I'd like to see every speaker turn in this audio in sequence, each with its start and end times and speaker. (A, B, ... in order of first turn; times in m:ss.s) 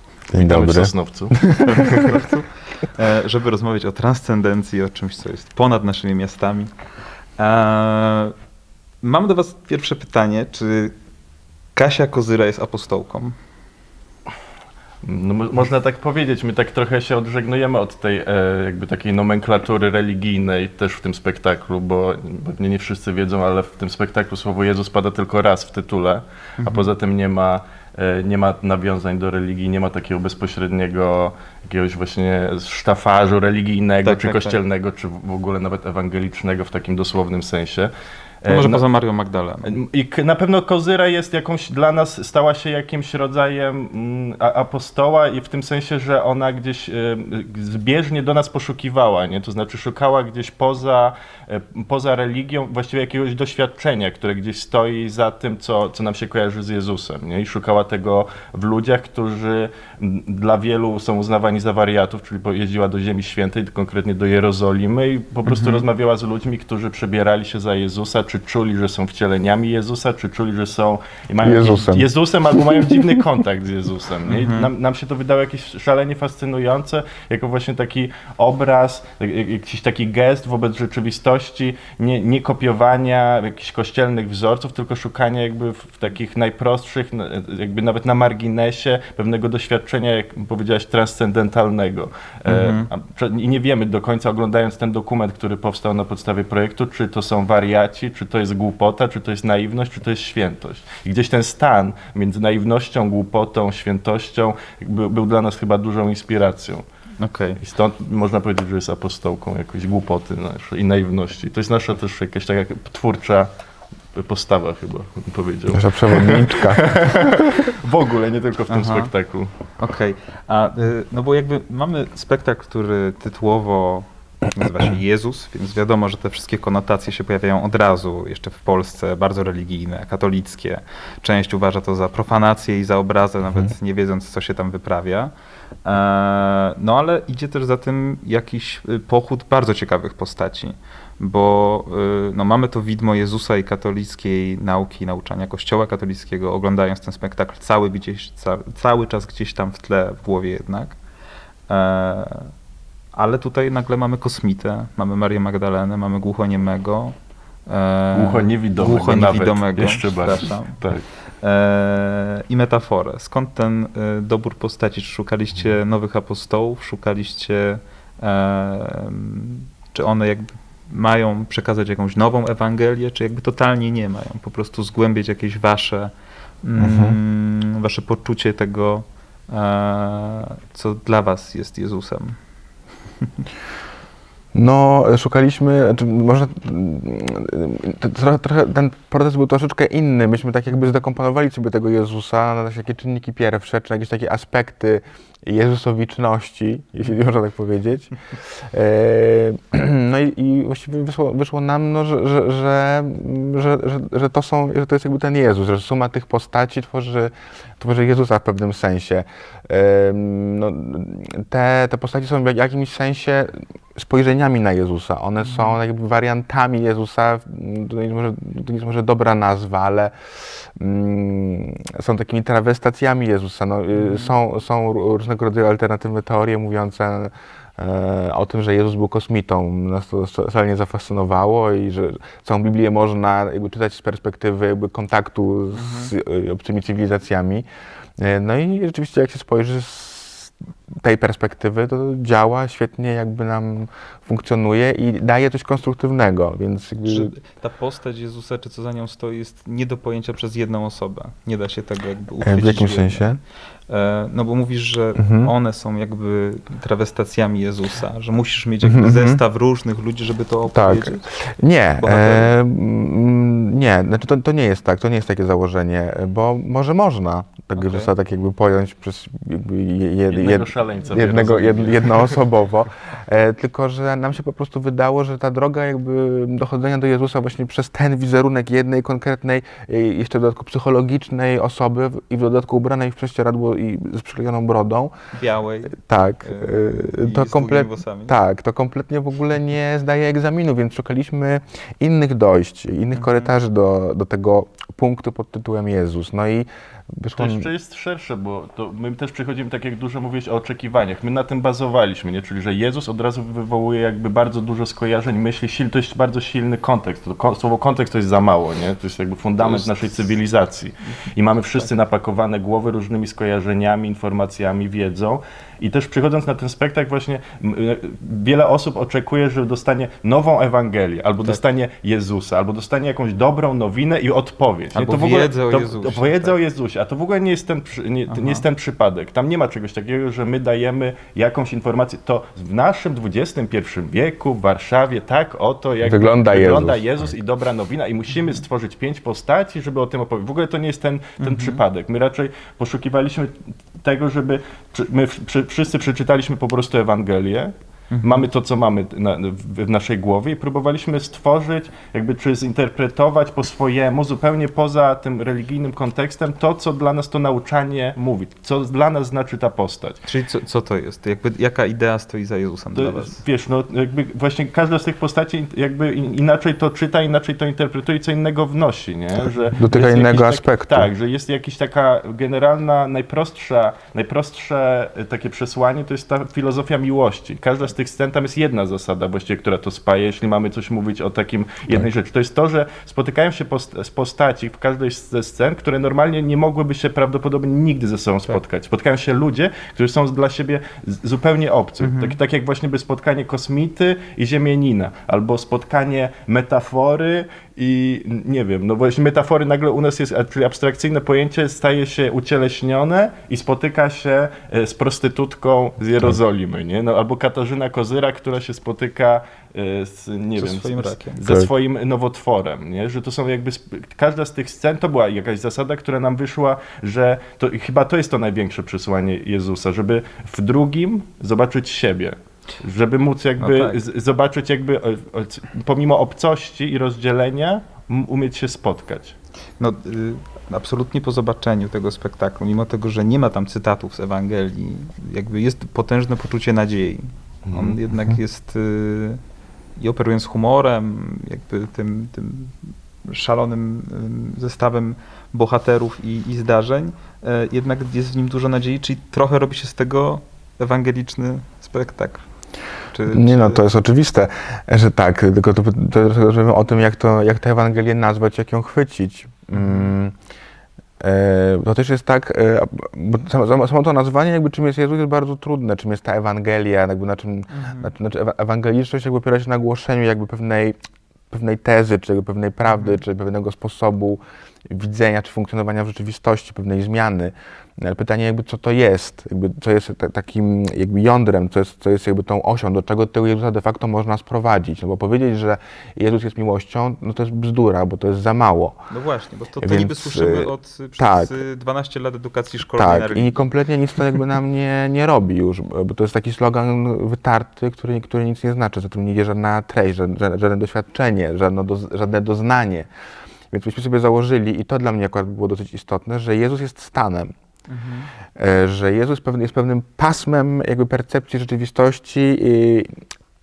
0:00.3-0:02.2 A
0:00.3-0:01.4 B
0:01.6-0:06.7 C
0:07.4-0:08.3 C
0:09.0-0:10.9 C
0:11.7-0:13.4 C
0:15.0-0:37.9 B
0:26.6-0:26.9 C
0:34.0-0:34.6 C
0:38.4-0:38.8 B
0:38.4-0:39.8 C
0:39.6-1:46.8 B
1:05.4-1:05.8 C
1:11.4-1:13.1 A
1:14.3-1:14.7 C
1:32.4-1:32.9 C
1:47.2-1:47.6 C
1:47.6-1:53.5 B
1:54.1-1:59.5 B
1:55.7-1:57.6 A
1:58.7-1:59.1 C
1:59.8-2:15.3 C
2:15.8-2:31.0 C
2:31.7-2:32.5 C
2:33.1-2:40.7 C
2:38.1-2:41.0 B
2:41.4-2:56.1 C
2:56.6-3:02.4 C
2:56.8-2:57.2 A
3:04.5-3:57.6 A
3:35.4-3:35.8 C
3:43.9-3:44.3 C
3:55.7-3:56.1 C
3:58.2-4:07.3 A
4:07.0-4:13.2 C
4:12.4-4:13.4 A
4:13.9-4:21.3 C
4:15.2-4:15.5 A
4:18.8-4:19.4 A
4:20.7-4:45.1 A
4:22.0-4:22.5 C
4:27.7-4:28.1 C
4:30.3-4:32.4 B
4:45.3-4:48.4 C
4:46.0-4:57.7 A
4:53.1-4:53.5 C
4:57.4-6:00.2 B
5:24.9-5:26.6 C
5:28.3-5:28.6 C
5:36.0-5:37.0 A
5:41.4-5:41.8 C
5:48.1-5:48.5 C
6:00.2-6:03.4 C
6:02.9-7:09.4 B
6:09.7-6:11.1 A
6:32.0-6:32.4 C
6:50.6-6:51.4 C
6:51.4-6:51.7 A
7:03.6-7:04.0 C
7:09.8-7:19.4 C
7:17.6-7:18.0 B
7:20.0-7:32.4 C
7:33.1-7:33.8 C
7:33.3-7:40.3 A
7:39.7-7:40.1 C
7:41.2-7:51.0 A
7:47.7-7:48.1 C
7:51.5-8:09.0 A
7:52.8-7:53.2 C
8:09.1-8:13.6 C
8:09.8-8:11.6 A
8:13.0-8:23.1 A
8:23.7-8:27.5 A
8:27.9-8:28.3 C
8:28.6-8:33.1 A